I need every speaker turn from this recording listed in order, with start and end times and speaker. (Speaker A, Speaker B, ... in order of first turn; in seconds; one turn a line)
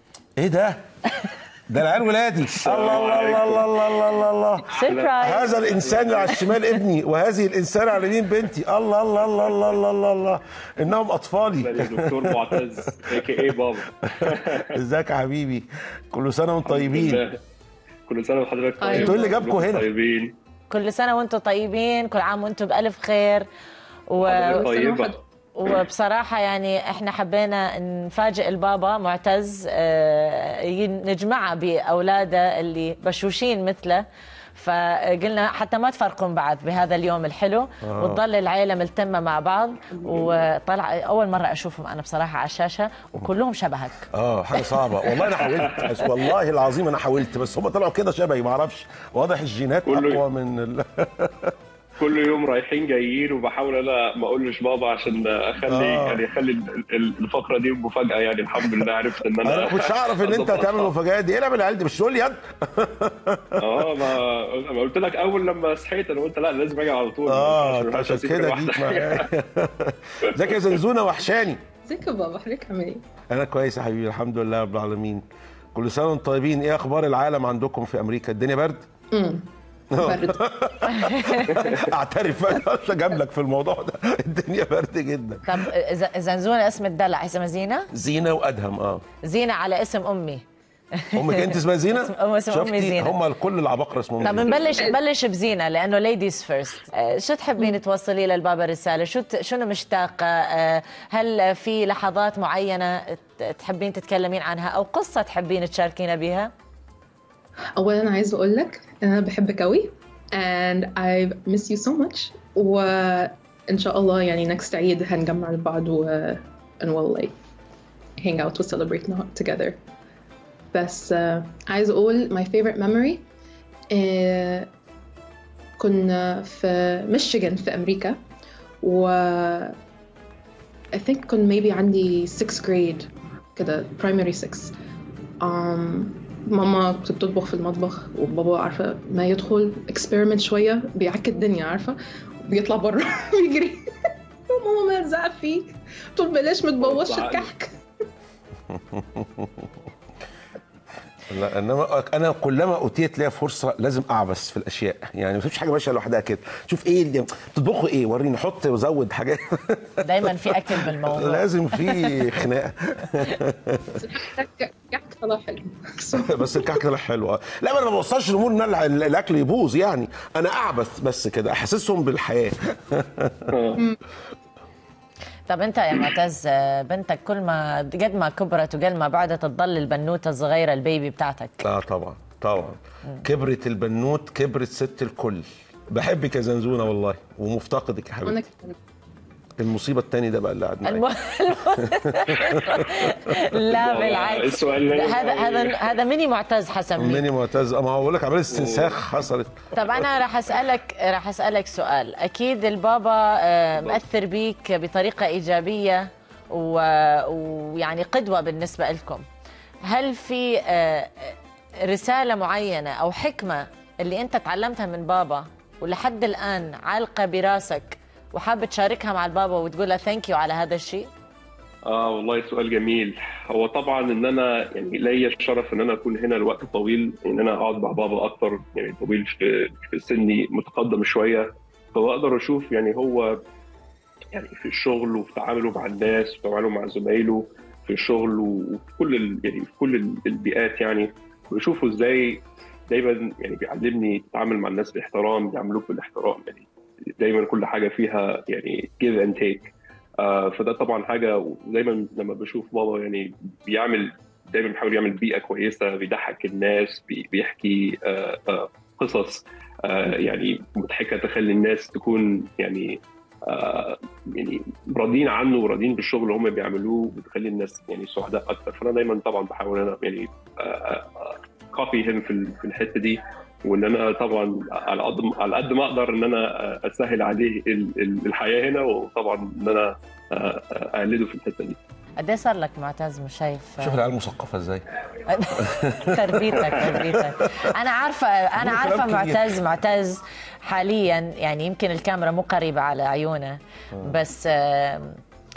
Speaker A: 0.4-0.8
Speaker A: 1.7-12.7
Speaker B: 2.5-3.8
Speaker C: 4.6-5.5
Speaker B: 4.8-6.5
Speaker B: 11.6-14.8
Speaker A: 14.2-17.2
Speaker B: 16.6-17.4
Speaker B: 18.1-20.3
Speaker D: 18.8-19.3
Speaker A: 18.9-19.9
Speaker C: 20.7-23.5
Speaker C: 24.1-24.7
Speaker B: 24.2-25.1
Speaker D: 24.4-25.1
Speaker C: 25.6-45.9
Speaker A: 37.8-38.2
Speaker B: 40.0-40.5
Speaker A: 44.1-51.5
Speaker B: 45.5-45.9
Speaker B: 49.8-50.2
Speaker B: 52.0-60.9
Speaker A: 55.7-56.2
Speaker A: 59.4-64.1
Speaker B: 63.6-69.3
Speaker A: 67.2-71.6
Speaker B: 70.3-70.8
Speaker D: 71.8-73.0
Speaker A: 73.3-78.9
Speaker D: 79.1-79.5
Speaker A: 79.9-85.5
Speaker D: 80.0-80.4
Speaker C: 80.9-81.6
Speaker C: 85.5-87.9
Speaker A: 87.9-89.0
Speaker C: 89.2-90.4
Speaker C: 91.0-93.2
Speaker A: 91.1-94.9
Speaker C: 94.2-106.5
Speaker D: 107.8-117.3
Speaker D: 118.2-119.8
Speaker D: 120.7-123.2
Speaker D: 123.9-124.7
Speaker D: 125.8-128.2
Speaker D: 128.8-129.7
Speaker D: 130.9-134.7
Speaker D: 135.4-143.8
Speaker D: 144.5-147.7
Speaker B: 146.8-147.5
Speaker A: 148.7-149.7
Speaker A: 151.3-164.0
Speaker C: 160.0-162.2
Speaker D: 164.0-166.8
Speaker A: 166.2-173.5
Speaker B: 173.5-173.8
Speaker C: 175.5-181.6
Speaker A: 181.6-188.4
Speaker D: 188.2-188.8
Speaker A: 189.6-191.1
Speaker C: 190.8-197.2
Speaker A: 192.3-193.3
Speaker B: 193.7-196.0
Speaker A: 197.0-199.7
Speaker B: 198.5-199.0
Speaker C: 199.7-209.2
Speaker B: 203.8-204.0
Speaker C: 209.8-221.1
Speaker B: 221.8-233.4
Speaker B: 234.3-246.7
Speaker B: 247.2-281.8
Speaker C: 282.2-284.0
Speaker A: 283.8-284.8
Speaker C: 285.2-295.2
Speaker A: 285.6-287.7
Speaker A: 288.6-289.6
Speaker A: 293.9-294.2